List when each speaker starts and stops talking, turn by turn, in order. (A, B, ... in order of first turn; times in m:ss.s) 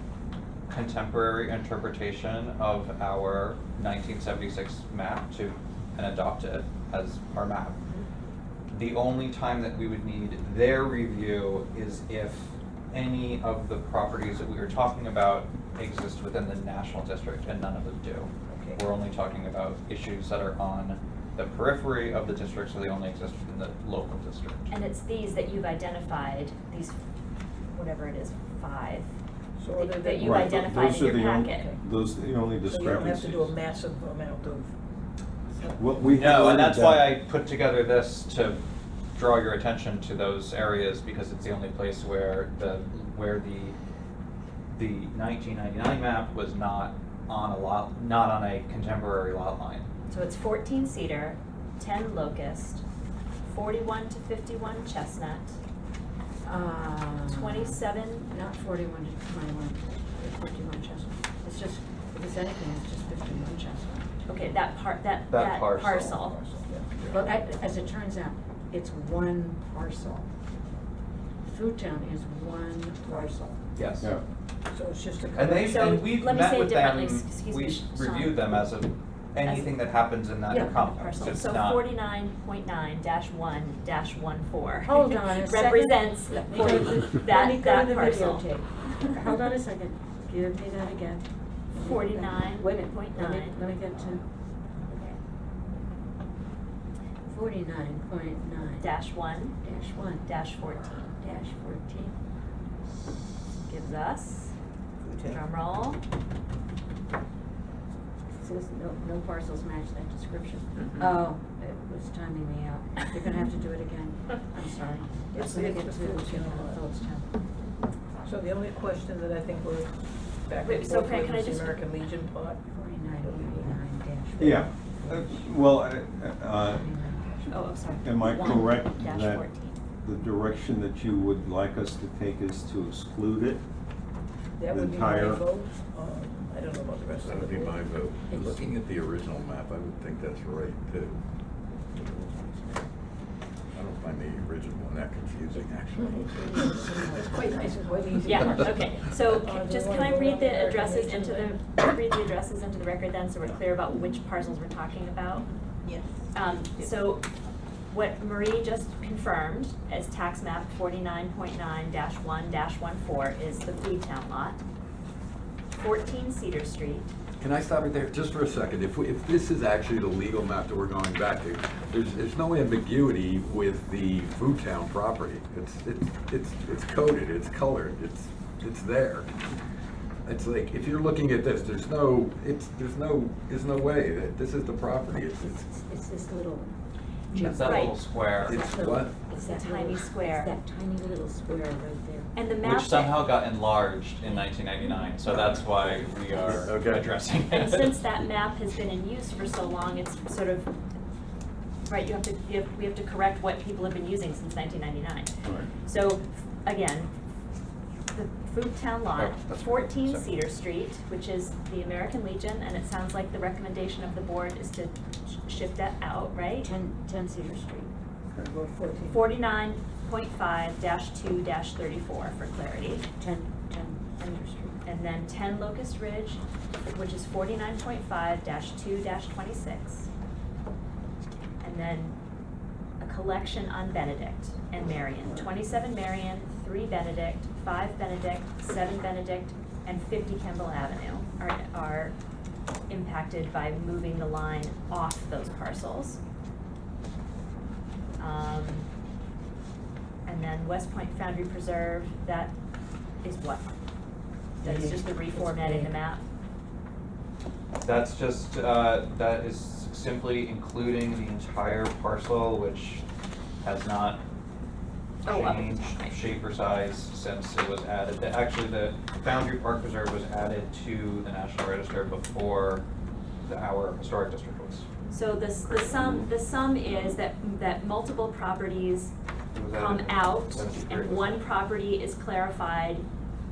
0:00.7-0:07.8 A
0:08.7-0:24.6 A
0:18.5-0:18.8 B
0:24.7-0:27.0 C
0:27.7-0:29.1 C
0:29.6-0:30.8 B
0:29.8-0:31.7 C
0:30.2-0:33.5 D
0:31.4-0:31.8 B
0:32.6-0:34.7 B
0:35.5-0:36.1 B
0:35.8-0:37.2 D
0:36.0-0:38.6 A
0:39.2-0:43.8 A
0:44.7-0:49.9 A
0:50.1-0:52.8 C
0:53.5-0:55.6 C
0:56.4-1:04.1 E
0:57.3-0:58.3 C
1:04.3-1:06.4 C
1:05.3-1:06.3 A
1:06.5-1:06.9 B
1:07.1-1:10.3 E
1:11.5-1:13.6 E
1:13.8-1:14.1 A
1:14.7-1:16.0 B
1:15.3-1:21.8 A
1:15.6-1:18.6 C
1:19.4-1:19.7 C
1:20.5-1:20.9 E
1:20.5-1:28.5 C
1:24.8-1:34.2 E
1:31.8-1:33.6 C
1:37.3-1:38.9 E
1:38.8-1:39.6 C
1:39.6-1:40.3 E
1:40.2-1:41.1 C
1:41.1-1:42.2 E
1:43.7-1:44.5 C
1:45.1-1:45.4 B
1:45.2-1:46.0 C
1:48.4-1:57.3 E
1:55.3-1:56.9 B
1:58.2-1:59.9 B
2:00.4-2:02.6 B
2:00.6-2:01.8 C
2:02.7-2:05.4 E
2:03.2-2:03.7 B
2:04.4-2:06.9 D
2:06.7-2:07.5 E
2:07.5-2:09.8 C
2:08.0-2:09.4 D
2:10.0-2:13.6 D
2:14.6-2:17.8 B
2:14.7-2:15.5 D
2:17.2-2:21.2 F
2:23.7-2:26.4 F
2:25.5-2:28.6 E
2:27.1-2:31.6 B
2:28.3-2:35.5 C
2:35.8-2:36.2 B
2:36.3-2:37.2 C
2:37.9-2:44.6 C
2:45.8-2:47.1 C
2:47.4-2:59.3 F
3:00.2-3:05.6 F
3:05.4-3:06.8 E
3:07.3-3:12.3 E
3:07.4-3:08.6 A
3:07.6-3:08.0 C
3:08.4-3:09.2 F
3:09.3-3:10.5 C
3:12.4-3:13.2 C
3:12.6-3:18.0 A
3:16.5-3:17.1 F
3:17.5-3:20.7 C
3:21.9-3:27.1 C
3:25.4-3:25.7 D
3:28.1-3:36.7 C
3:29.2-3:30.3 A
3:36.6-3:37.9 E
3:38.4-3:39.2 B
3:39.1-3:43.0 C
3:43.2-3:44.0 E
3:44.2-3:50.1 C
3:51.6-3:52.2 C
3:53.0-4:02.2 C
4:02.9-4:06.2 C
4:08.2-4:08.9 C
4:10.3-4:12.6 C
4:13.2-4:13.7 C
4:14.6-4:16.0 E
4:14.6-4:16.2 C
4:17.8-4:23.0 A
4:23.6-4:24.2 A
4:25.2-4:26.2 C
4:25.3-4:32.8 A
4:33.5-4:34.9 A
4:35.1-4:39.1 C
4:39.5-4:41.4 A
4:39.7-4:43.1 C